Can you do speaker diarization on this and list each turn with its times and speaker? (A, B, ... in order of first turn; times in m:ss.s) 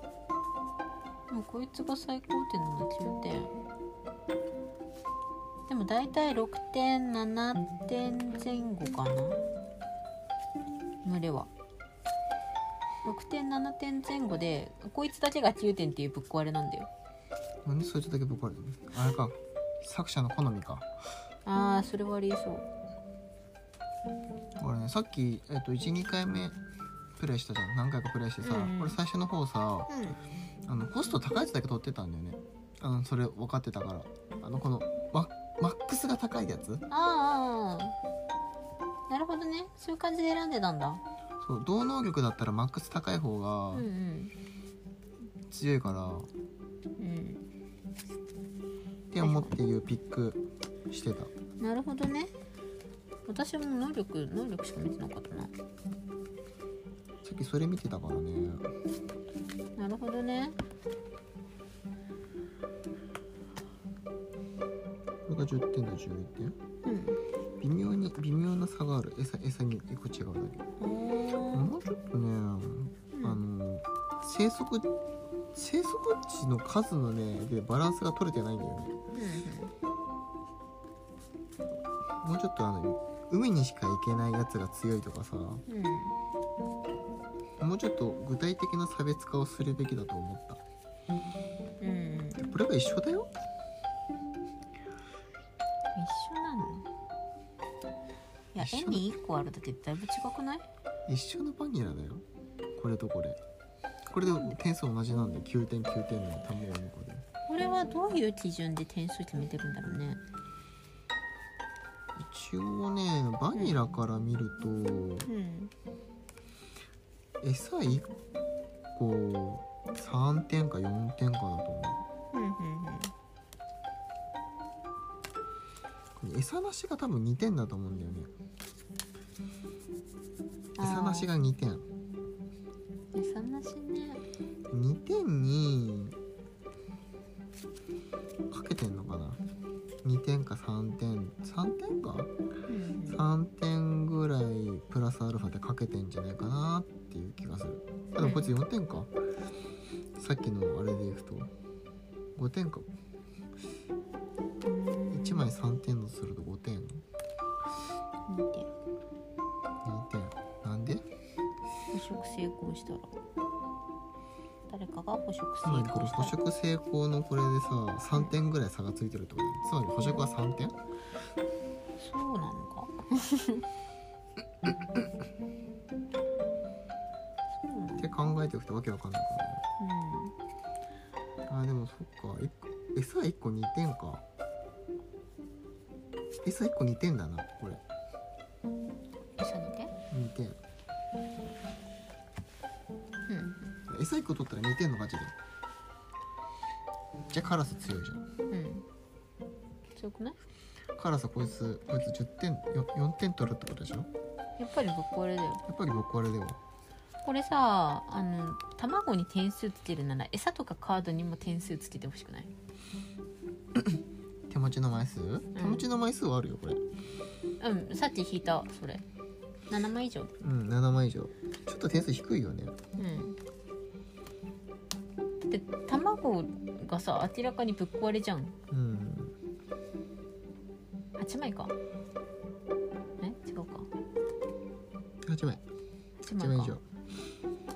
0:01.3-0:03.5 A
0:05.7-0:09.4 A
0:11.0-0:11.5 A
0:13.0-0:16.9 A
0:17.6-0:20.9 B
0:21.4-0:22.6 A
0:24.6-0:26.6 B
0:27.2-0:29.9 B
0:28.4-0:29.0 A
0:29.9-0:30.2 A
0:30.6-0:36.8 B
0:36.9-0:37.9 A
0:39.1-0:41.0 A
0:41.4-0:43.8 B
0:43.7-0:44.3 A
0:45.5-0:46.3 B
0:47.0-0:47.4 A
0:49.1-0:51.3 B
0:49.2-0:49.5 A
0:51.6-0:52.3 A
0:53.3-0:55.5 A
0:57.2-0:58.7 B
0:59.8-1:00.6 A
1:05.3-1:06.6 B
1:06.8-1:07.2 A
1:07.6-1:10.6 B
1:10.8-1:11.7 A
1:11.5-1:14.9 B
1:13.1-1:13.4 A
1:15.5-1:18.9 B
1:19.2-1:19.7 A
1:22.2-1:25.6 B
1:25.7-1:26.2 A
1:27.6-1:30.6 B
1:31.8-1:32.4 A
1:32.4-1:33.3 B
1:36.0-1:36.8 A
1:38.5-1:40.6 A
1:38.6-1:39.0 B
1:41.1-1:42.2 B
1:42.8-1:43.4 B
1:44.1-1:47.2 B
1:47.5-1:50.2 A
1:52.2-1:55.3 B
1:55.2-1:55.7 A
1:57.4-1:58.1 B
1:58.9-2:02.0 B
2:02.3-2:03.1 A
2:06.2-2:08.3 B
2:10.8-2:11.3 A
2:10.8-2:11.8 B
2:13.1-2:14.2 A
2:14.7-2:16.2 B
2:18.5-2:19.4 B
2:20.0-2:22.3 B
2:22.7-2:23.2 A
2:23.1-2:29.1 B
2:28.2-2:28.5 A
2:30.2-2:31.5 B
2:32.4-2:32.9 B
2:34.6-2:35.5 A
2:35.1-2:37.0 B
2:38.3-2:38.7 A
2:39.8-2:41.0 B
2:41.9-2:43.1 A
2:44.7-2:46.4 A
2:45.6-2:50.8 B
2:52.0-2:53.6 A
2:57.6-2:58.0 A
2:58.0-2:59.6 B
2:59.8-3:00.3 A
3:01.5-3:04.2 B
3:06.4-3:07.8 B
3:09.4-3:09.9 A
3:10.1-3:10.6 B
3:13.3-3:13.6 A
3:13.9-3:15.3 B
3:17.3-3:18.2 B
3:18.5-3:18.8 A
3:19.9-3:20.4 A
3:21.0-3:24.1 B
3:24.6-3:25.6 A
3:25.7-3:26.6 B
3:27.2-3:32.5 A
3:33.7-3:36.8 B
3:35.5-3:35.9 A
3:37.6-3:39.0 A
3:39.7-3:40.3 A
3:40.4-3:42.8 B
3:43.0-3:43.4 A
3:45.4-3:48.5 A
3:48.7-3:49.3 B
3:51.2-3:51.7 A
3:53.2-3:53.9 A
3:55.2-3:55.6 B
3:56.2-3:56.8 A
3:56.3-3:56.8 B